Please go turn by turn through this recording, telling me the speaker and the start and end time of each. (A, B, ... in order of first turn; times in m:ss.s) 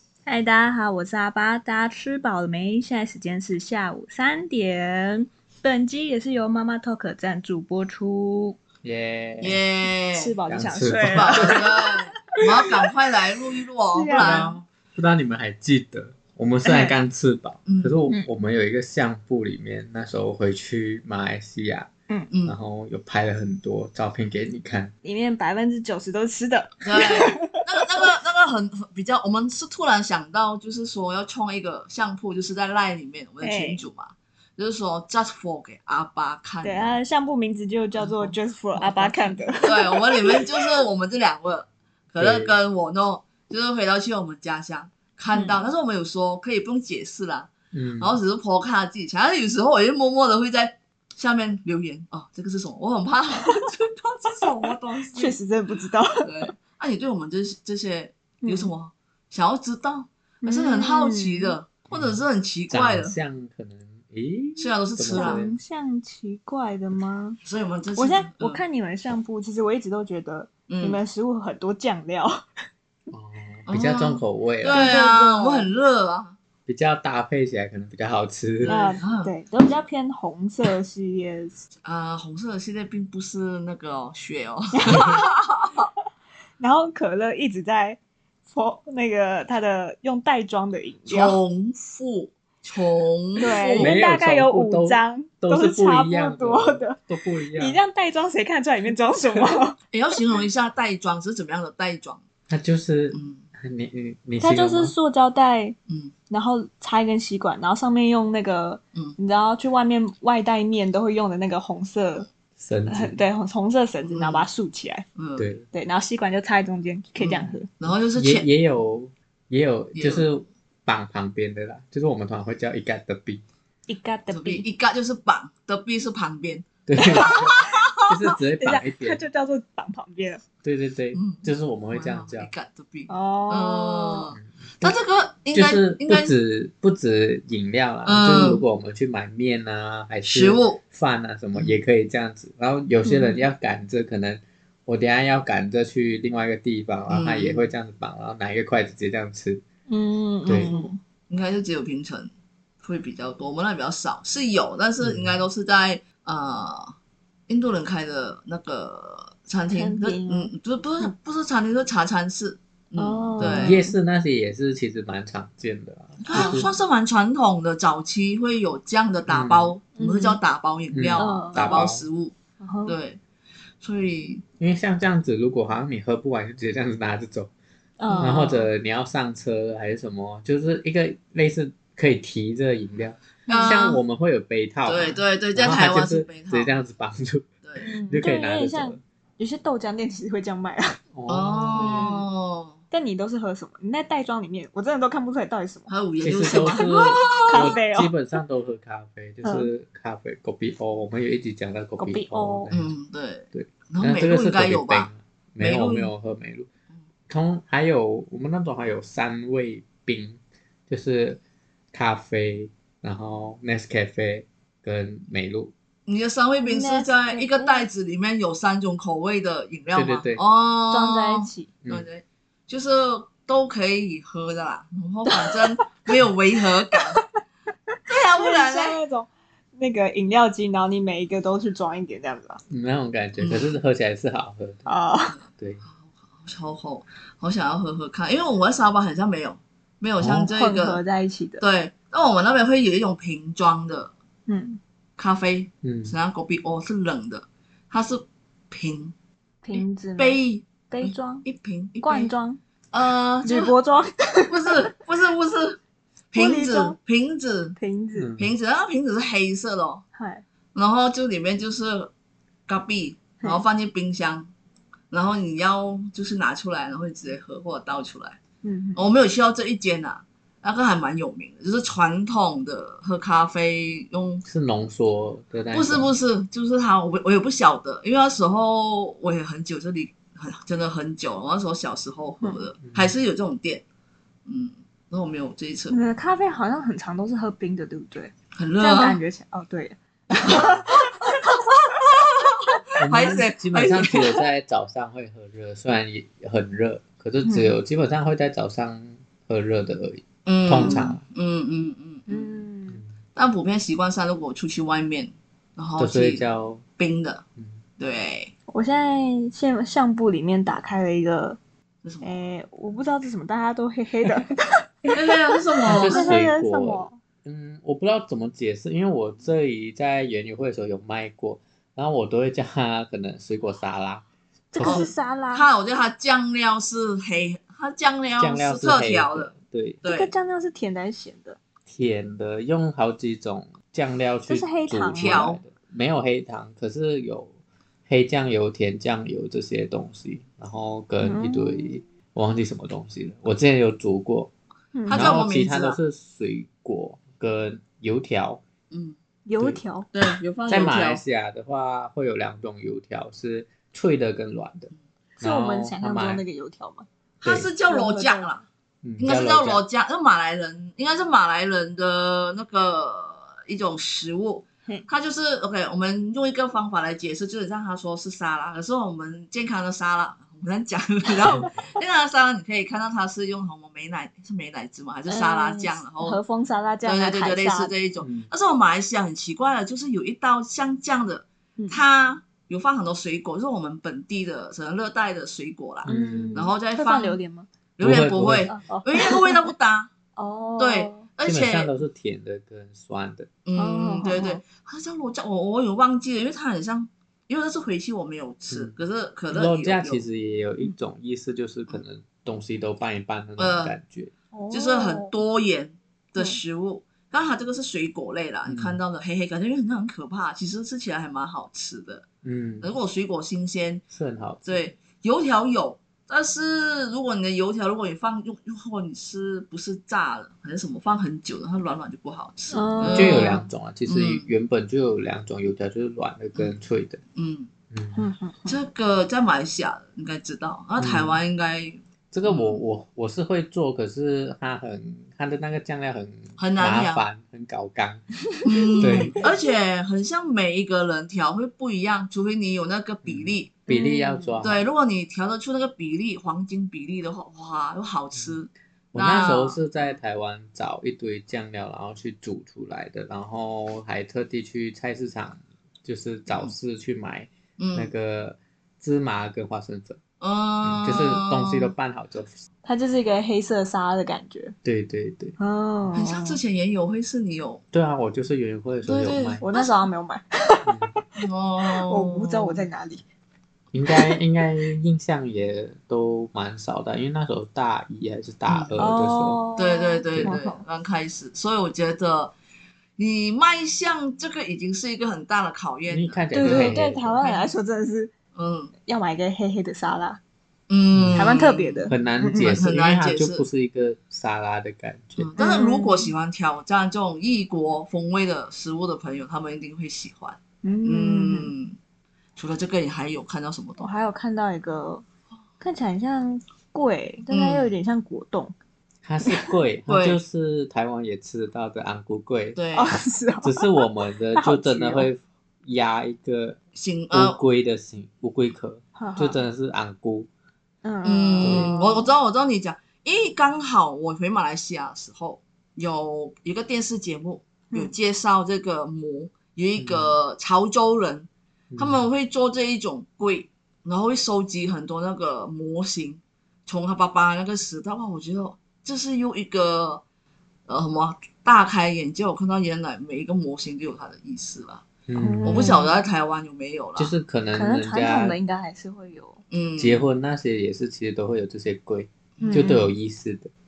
0:00.2-0:08.6 A
0:08.8-0:09.6 B
0:09.4-0:10.3 C
0:10.1-0:12.7 A
0:10.5-0:11.6 B
0:11.0-0:14.6 C
0:13.9-0:14.5 A
0:14.2-0:21.9 B
0:16.6-0:16.9 A
0:17.6-0:18.0 C
0:22.3-0:22.6 C
0:22.4-0:24.9 B
0:25.0-0:28.1 A
0:26.8-0:37.0 C
0:33.4-0:33.8 A
0:36.6-0:40.8 A
0:38.0-0:55.4 C
0:42.2-0:42.5 B
0:45.3-0:45.6 A
0:47.7-0:48.2 B
0:55.1-0:56.5 A
0:56.2-1:03.2 C
0:58.4-0:58.7 A
1:00.4-1:01.6 A
1:01.9-1:05.6 B
1:04.6-1:05.4 C
1:05.1-1:07.4 A
1:07.4-1:08.6 C
1:08.0-1:12.5 A
1:10.7-1:11.0 C
1:13.1-1:14.9 B
1:13.7-1:16.4 C
1:14.7-1:15.7 A
1:16.7-1:18.8 B
1:18.6-1:19.3 C
1:18.6-1:21.6 A
1:21.8-1:25.8 C
1:24.8-1:25.1 A
1:24.9-1:25.2 B
1:26.6-1:31.4 A
1:31.1-1:33.9 C
1:33.4-1:37.0 A
1:33.8-1:37.8 B
1:37.5-1:39.8 A
1:39.9-1:42.2 C
1:42.5-1:44.9 B
1:43.1-1:43.4 C
1:44.4-1:45.8 A
1:46.3-1:52.3 A
1:52.6-1:53.2 B
1:52.9-1:55.0 A
1:54.1-1:54.5 C
1:55.2-1:55.5 C
1:55.4-1:55.6 B
1:55.7-1:57.7 A
1:57.2-1:58.4 C
1:57.9-2:03.4 B
1:59.9-2:00.3 C
2:03.9-2:04.6 A
2:04.3-2:08.1 C
2:06.9-2:09.2 B
2:08.6-2:10.4 A
2:10.6-2:12.5 B
2:11.1-2:16.3 C
2:13.1-2:14.3 A
2:14.4-2:15.0 B
2:15.5-2:29.6 B
2:18.0-2:18.6 C
2:20.2-2:20.8 C
2:21.5-2:21.8 C
2:23.0-2:23.4 A
2:27.1-2:27.7 C
2:29.9-2:31.0 A
2:30.4-2:30.7 B
2:30.5-2:32.3 C
2:32.8-2:36.9 C
2:35.0-2:35.4 B
2:37.5-2:43.8 C
2:39.7-2:41.1 A
2:43.0-2:43.9 A
2:43.4-2:46.7 B
2:46.2-2:52.3 C
2:46.3-2:46.7 A
2:49.3-2:49.7 B
2:50.0-2:50.4 A
2:50.9-2:52.0 B
2:51.2-2:51.8 A
2:52.6-2:53.0 A
2:52.8-2:53.2 C
2:53.8-2:54.4 C
2:54.6-2:57.5 B
2:58.0-2:58.7 A
2:58.1-2:58.4 C
2:58.2-3:07.5 B
3:03.5-3:03.9 A
3:03.5-3:04.0 C
3:04.9-3:06.8 C
3:07.6-3:07.9 C
3:07.8-3:11.0 A
3:08.0-3:09.0 B
3:11.1-3:12.1 B
3:11.3-3:12.8 C
3:11.7-3:12.2 A
3:12.9-3:18.1 A
3:15.9-3:17.8 C
3:16.2-3:22.9 B
3:19.4-3:19.7 A
3:22.0-3:22.7 A
3:22.7-3:26.1 C
3:23.5-3:26.7 B
3:27.3-3:31.4 B
3:31.9-3:35.7 B
3:36.1-3:47.2 C
3:36.6-3:37.9 A
3:39.9-3:40.4 B
3:40.9-3:41.7 A
3:45.2-3:45.8 A
3:46.6-3:47.4 A
3:47.9-3:52.6 A
3:48.1-3:49.0 C
3:52.7-3:54.9 B
3:53.4-3:53.7 C
3:54.9-3:55.4 A
3:55.6-3:55.8 B
3:56.0-4:01.0 C
4:00.2-4:00.5 B
4:00.5-4:01.6 A
4:01.6-4:04.1 C
4:04.5-4:04.8 A
4:05.2-4:09.1 C
4:05.8-4:06.1 B
4:09.6-4:11.4 A
4:09.7-4:12.3 C
4:12.0-4:12.6 A
4:12.9-4:13.7 C
4:13.4-4:14.9 A
4:14.5-4:15.8 C
4:16.3-4:17.8 C
4:16.3-4:17.0 A
4:17.8-4:18.3 A
4:18.1-4:18.5 B
4:18.4-4:20.0 C
4:20.1-4:20.4 A
4:20.7-4:22.1 C
4:22.7-4:24.5 C
4:25.1-4:28.4 C
4:28.6-4:29.0 A
4:29.0-4:34.4 C
4:34.4-4:36.1 B
4:35.7-4:43.8 C
4:42.8-4:43.2 B
4:44.4-4:46.0 C
4:45.9-4:51.6 A
4:48.5-4:49.2 C
4:50.5-4:50.8 B
4:52.0-4:54.4 C
4:53.0-5:01.2 B
4:57.4-4:57.7 A
5:00.4-5:02.5 C
5:00.8-5:01.1 A
5:02.3-5:03.0 A
5:03.4-5:06.4 C
5:06.0-5:06.8 B
5:07.0-5:07.4 C
5:08.0-5:08.5 C
5:08.7-5:11.6 A
5:12.0-5:12.4 C
5:12.2-5:15.3 A
5:15.1-5:16.3 C
5:15.8-5:17.2 A
5:15.9-5:25.1 B
5:24.7-5:25.7 A
5:24.8-5:30.3 C
5:28.4-5:30.0 B
5:30.0-5:31.6 A
5:31.9-5:37.5 B
5:34.5-5:35.4 A
5:35.1-5:35.6 C
5:38.1-5:44.5 B
5:41.2-5:42.0 A
5:44.9-5:45.3 A
5:45.0-5:46.0 C
5:45.1-5:48.6 B
5:48.9-5:49.2 C
5:49.4-5:50.1 A
5:49.6-5:56.4 B
5:50.1-5:51.2 C
5:55.4-5:57.1 A
5:57.4-5:58.6 C
5:57.4-5:57.7 B
5:57.9-5:58.6 A
5:59.0-5:59.8 B
5:59.2-6:16.4 C
6:15.3-6:17.9 A
6:17.0-6:27.4 C
6:18.2-6:18.5 B
6:26.0-6:26.6 B
6:26.1-6:27.7 A
6:28.0-6:30.1 C
6:28.0-6:28.7 B
6:28.6-6:29.7 A
6:30.4-6:31.2 A
6:30.8-6:31.9 C
6:31.4-6:33.5 B
6:33.6-6:40.2 C
6:33.8-6:34.6 A
6:39.5-6:44.3 B
6:43.6-6:43.9 C
6:44.5-6:45.3 A
6:44.7-6:52.2 C
6:48.6-6:49.0 B
6:52.4-6:52.9 B
6:52.8-6:54.0 C
6:54.1-6:54.8 B
6:54.6-7:03.5 C
7:02.7-7:03.7 A
7:03.1-7:07.2 B
7:04.1-7:04.5 C
7:07.3-7:07.7 C
7:07.9-7:08.3 B
7:08.1-7:08.8 A
7:08.7-7:12.8 C
7:11.0-7:11.4 B
7:12.3-7:18.2 B
7:16.6-7:17.2 C
7:18.5-7:19.5 A
7:18.6-7:23.8 C
7:19.0-7:19.4 B
7:23.2-7:24.8 B
7:23.9-7:24.7 A
7:24.6-7:29.8 C
7:29.1-7:40.2 B
7:36.5-7:36.7 C
7:37.8-7:38.1 C
7:40.4-7:41.9 C
7:40.8-7:42.6 B
7:42.8-7:44.7 A
7:44.8-7:45.6 B
7:45.6-7:46.6 A
7:46.1-7:47.8 C
7:47.9-7:49.6 B
7:49.0-7:50.1 C
7:49.6-7:53.2 A
7:50.8-7:51.2 B
7:51.4-7:52.9 C
7:53.9-7:59.6 B
7:54.1-7:54.4 A
7:58.7-7:59.0 C
7:59.0-8:00.8 A
7:59.8-8:02.5 C
8:00.3-8:00.6 B
8:03.2-8:07.7 C
8:06.1-8:07.4 B
8:06.5-8:08.3 A
8:08.5-8:08.9 C
8:09.0-8:10.4 A
8:10.9-8:12.0 C
8:11.1-8:11.4 B
8:11.3-8:12.7 A
8:12.1-8:15.5 B
8:12.6-8:13.6 C
8:15.4-8:22.0 C
8:15.6-8:16.3 A
8:20.8-8:21.7 A
8:22.6-8:24.1 C
8:24.0-8:25.2 A
8:25.8-8:28.7 A
8:27.5-8:27.9 C
8:29.2-8:32.8 B
8:30.1-8:30.4 C
8:32.8-8:33.1 C
8:32.9-8:33.9 A
8:33.6-8:36.8 B
8:34.5-8:35.3 A
8:36.9-8:37.6 C
8:37.3-8:40.5 B
8:39.2-8:39.6 A
8:41.0-8:42.3 A
8:41.2-9:00.2 C
8:41.6-8:41.9 B
8:50.0-8:50.4 B
8:51.9-8:52.2 B
9:00.9-9:05.0 C
9:05.3-9:06.0 B
9:05.3-9:06.1 A
9:05.6-9:07.3 C
9:07.2-9:08.6 B
9:07.7-9:09.6 A
9:09.7-9:10.2 C
9:10.0-9:13.7 B
9:12.6-9:12.9 C
9:12.6-9:13.1 A